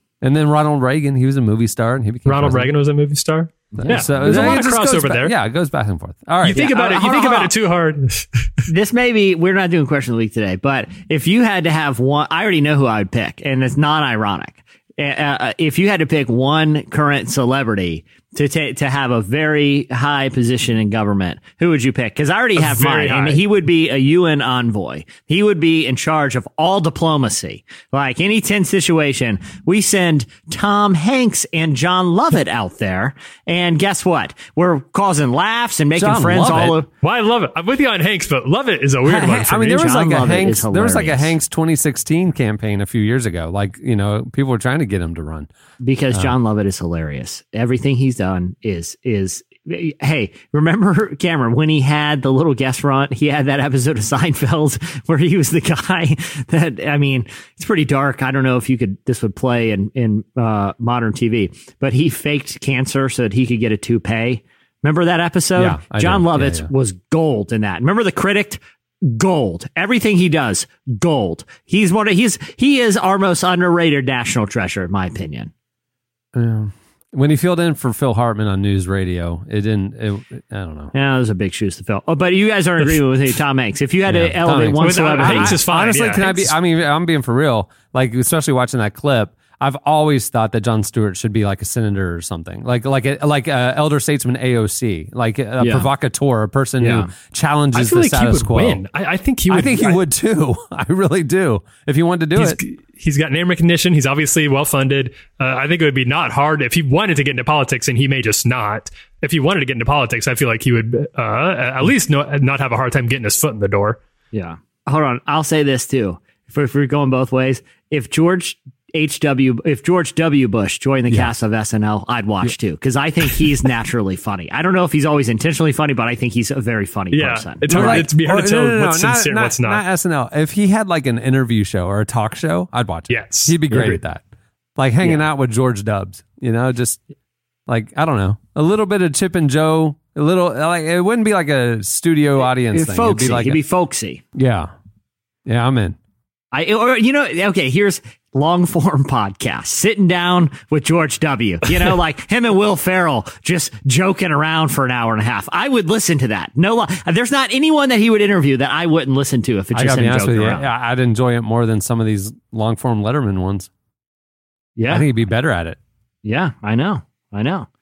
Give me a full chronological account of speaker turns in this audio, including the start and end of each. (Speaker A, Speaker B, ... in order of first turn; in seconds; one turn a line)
Speaker A: 0.2-2.7
Speaker B: 2.2-5.3
Speaker C: 3.8-4.6
Speaker A: 3.9-6.7
Speaker B: 6.4-8.5
Speaker C: 6.5-7.5
Speaker C: 8.7-36.9
Speaker B: 22.6-23.4
Speaker A: 36.0-36.7
Speaker B: 37.0-39.9
Speaker A: 39.1-45.5
Speaker C: 39.5-41.3
Speaker C: 45.8-75.5
Speaker A: 65.5-66.7
Speaker A: 76.3-80.9
Speaker C: 80.9-85.6
Speaker A: 84.1-98.8
Speaker B: 84.8-86.5
Speaker C: 95.6-95.9
Speaker C: 96.8-97.1
Speaker B: 97.7-100.0
Speaker A: 99.5-102.6
Speaker B: 102.3-114.0
Speaker C: 114.3-128.1
Speaker B: 127.1-129.8
Speaker A: 127.7-134.2
Speaker B: 133.1-134.0
Speaker A: 134.8-137.0
Speaker A: 137.7-143.6
Speaker C: 142.7-144.2
Speaker A: 144.3-144.7
Speaker A: 145.4-146.0
Speaker C: 146.5-160.7
Speaker A: 159.7-163.7
Speaker C: 164.8-165.1
Speaker A: 164.9-165.8
Speaker C: 166.2-167.7